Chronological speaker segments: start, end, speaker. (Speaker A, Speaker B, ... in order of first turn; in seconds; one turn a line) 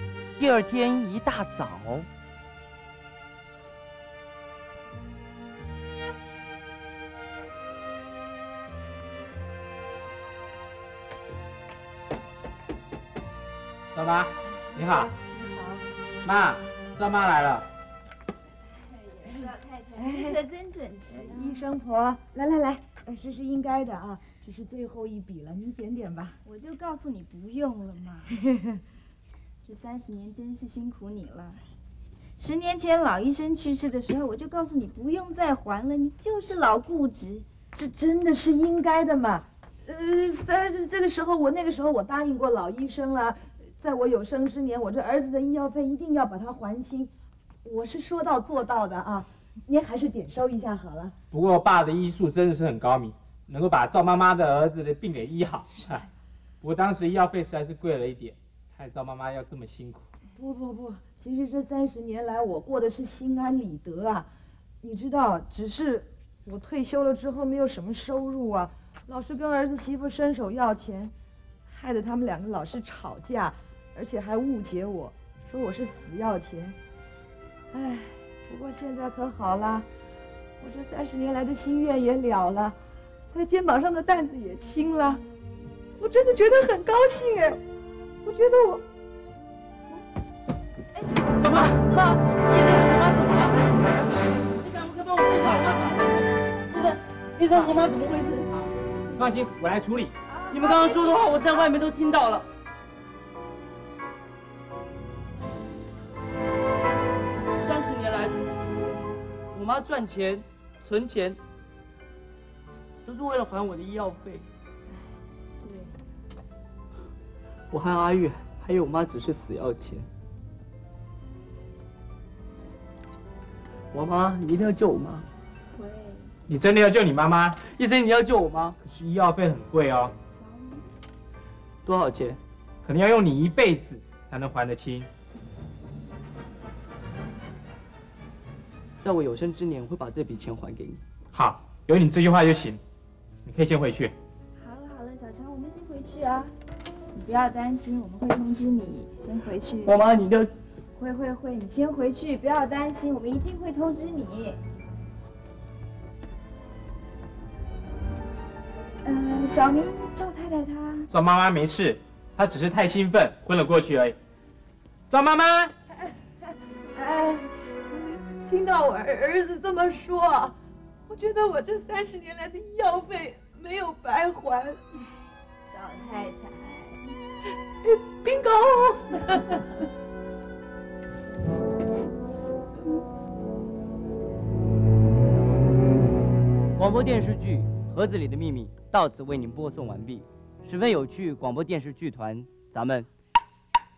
Speaker A: 0.4-2.1
Speaker B: 13.9-15.1
Speaker C: 14.8-15.8
Speaker B: 16.2-17.7
Speaker D: 19.0-21.7
Speaker C: 20.0-20.4
Speaker C: 21.1-26.4
Speaker D: 26.4-28.3
Speaker C: 28.4-28.8
Speaker D: 29.6-31.6
Speaker D: 32.4-37.5
Speaker C: 37.7-47.1
Speaker C: 47.6-51.1
Speaker B: 51.3-56.0
Speaker B: 56.6-60.0
Speaker C: 60.4-64.3
Speaker C: 64.8-71.1
Speaker C: 71.7-76.8
Speaker C: 77.7-79.9
Speaker C: 80.6-82.8
Speaker C: 83.3-85.2
Speaker C: 86.0-87.6
Speaker C: 88.2-88.8
Speaker A: 91.4-93.7
Speaker A: 94.6-98.6
Speaker B: 99.1-100.1
Speaker C: 100.3-101.7
Speaker A: 100.5-102.5
Speaker A: 107.6-108.4
Speaker A: 109.5-111.4
Speaker A: 113.1-114.5
Speaker D: 115.6-116.0
Speaker A: 117.7-120.1
Speaker A: 123.9-125.3
Speaker D: 125.7-126.3
Speaker B: 126.5-127.6
Speaker A: 127.7-128.8
Speaker B: 128.8-130.1
Speaker D: 130.3-130.9
Speaker A: 131.9-132.4
Speaker B: 132.8-135.1
Speaker A: 139.0-141.0
Speaker B: 141.3-142.8
Speaker B: 143.5-144.1
Speaker D: 144.6-146.5
Speaker D: 147.1-149.9
Speaker A: 149.8-150.5
Speaker D: 150.9-154.6
Speaker D: 159.1-161.1
Speaker B: 161.1-164.2
Speaker B: 165.1-165.7
Speaker C: 166.9-170.5
Speaker C: 171.1-174.8
Speaker D: 175.7-177.0
Speaker C: 177.8-179.6
Speaker A: 186.8-193.1